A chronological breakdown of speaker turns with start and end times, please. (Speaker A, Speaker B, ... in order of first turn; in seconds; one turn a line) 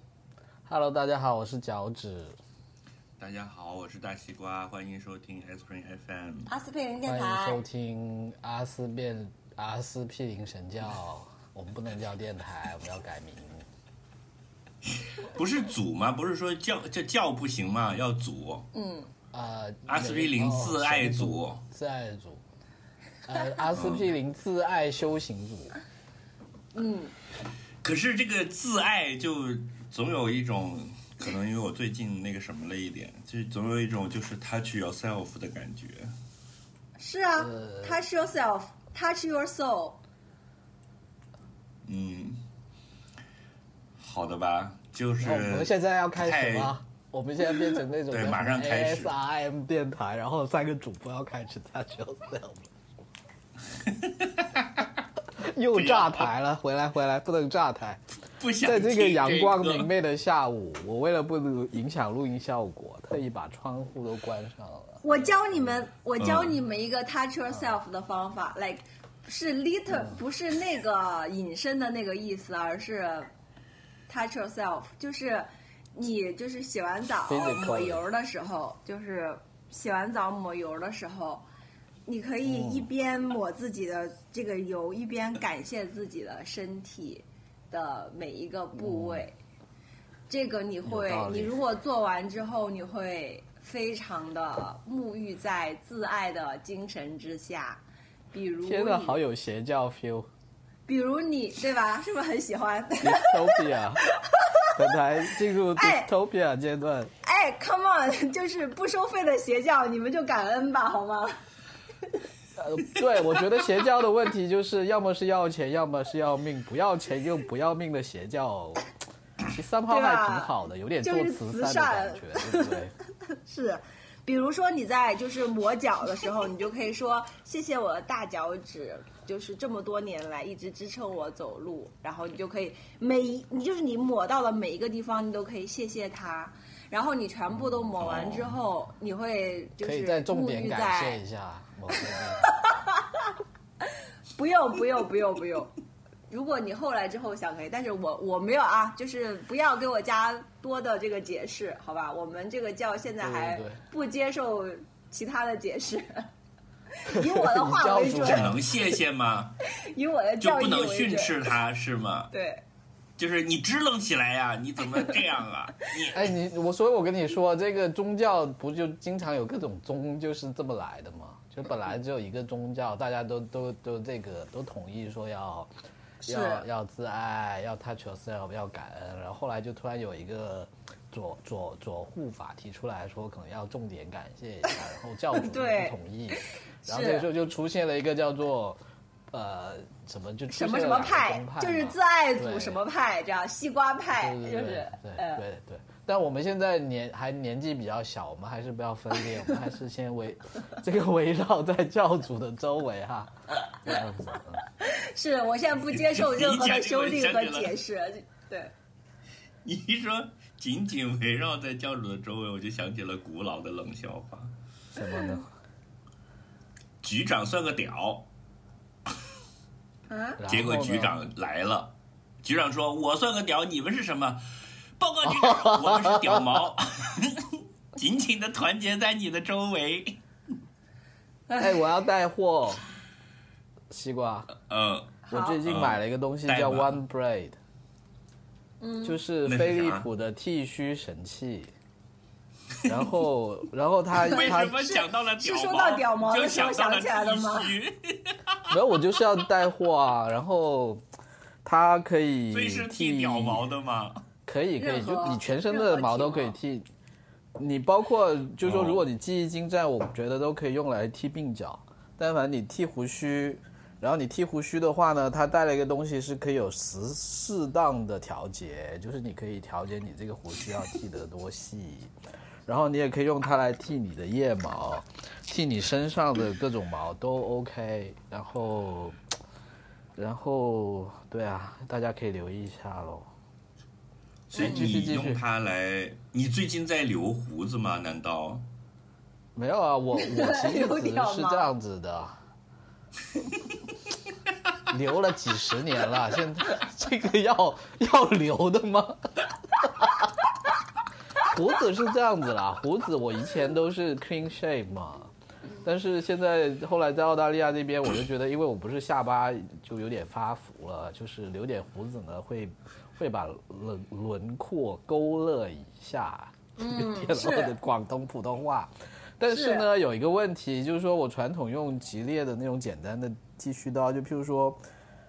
Speaker A: 0.7-2.4
Speaker B: 3.2-6.5
Speaker C: 6.5-7.6
Speaker A: 7.0-13.7
Speaker B: 15.0-18.7
Speaker C: 18.7-19.1
Speaker A: 19.3-22.4
Speaker B: 19.9-21.6
Speaker A: 23.2-25.8
Speaker B: 23.7-24.1
Speaker C: 26.7-27.1
Speaker B: 27.8-36.1
Speaker C: 37.0-40.0
Speaker A: 37.4-38.0
Speaker B: 41.8-42.4
Speaker B: 44.0-46.7
Speaker A: 45.2-52.7
Speaker B: 48.1-49.1
Speaker B: 53.9-54.9
Speaker A: 55.4-58.0
Speaker B: 55.7-56.3
Speaker B: 58.4-59.9
Speaker A: 58.6-65.8
Speaker C: 65.0-73.3
Speaker B: 66.2-66.6
Speaker A: 67.5-67.8
Speaker A: 69.9-70.2
Speaker C: 74.1-81.4
Speaker A: 77.2-78.0
Speaker C: 82.0-89.4
Speaker A: 82.4-82.9
Speaker A: 88.8-89.2
Speaker C: 90.3-99.2
Speaker A: 90.8-91.6
Speaker A: 98.6-100.3
Speaker C: 100.9-104.7
Speaker A: 103.0-104.0
Speaker A: 104.7-107.1
Speaker C: 105.7-106.1
Speaker C: 107.2-111.4
Speaker A: 112.5-118.9
Speaker A: 119.5-122.9
Speaker C: 119.9-122.8
Speaker C: 123.3-141.2
Speaker B: 138.0-138.6
Speaker A: 139.8-142.5
Speaker C: 142.4-145.8
Speaker C: 146.3-156.3
Speaker A: 153.2-153.8
Speaker C: 157.0-158.5
Speaker A: 157.1-158.6
Speaker B: 158.2-159.6
Speaker C: 159.8-161.4
Speaker B: 160.4-162.3
Speaker C: 162.3-162.6
Speaker B: 163.2-166.3
Speaker A: 166.1-175.7
Speaker A: 176.2-188.8
Speaker C: 176.2-176.7
Speaker C: 185.3-187.3
Speaker A: 189.3-192.8
Speaker C: 190.5-195.4
Speaker A: 194.2-203.3
Speaker A: 203.8-204.7
Speaker C: 204.8-208.7
Speaker B: 205.9-207.7
Speaker B: 209.6-214.5
Speaker A: 214.9-215.5
Speaker C: 215.1-215.4
Speaker B: 217.0-218.3
Speaker C: 220.1-220.4
Speaker A: 220.4-221.1
Speaker B: 220.5-224.4
Speaker B: 225.0-230.2
Speaker A: 225.2-226.4
Speaker A: 231.6-232.8
Speaker A: 233.9-234.5
Speaker B: 234.5-237.0
Speaker C: 235.3-235.6
Speaker A: 235.3-237.6
Speaker C: 238.8-239.2
Speaker A: 239.0-241.7
Speaker B: 239.4-240.1
Speaker A: 242.8-244.8
Speaker B: 244.1-248.7
Speaker C: 244.3-247.7
Speaker A: 248.7-251.0
Speaker A: 251.6-253.7
Speaker B: 252.5-254.2
Speaker A: 254.4-256.9
Speaker C: 254.8-256.5
Speaker A: 257.5-272.1
Speaker B: 258.6-259.1
Speaker A: 272.6-279.2
Speaker A: 280.1-283.3
Speaker B: 284.5-288.6
Speaker C: 284.5-284.8
Speaker A: 284.6-285.4
Speaker A: 289.5-292.4
Speaker C: 290.1-291.7
Speaker A: 294.9-300.3
Speaker A: 301.4-305.3
Speaker A: 305.8-324.8
Speaker C: 316.8-317.7
Speaker C: 319.5-319.9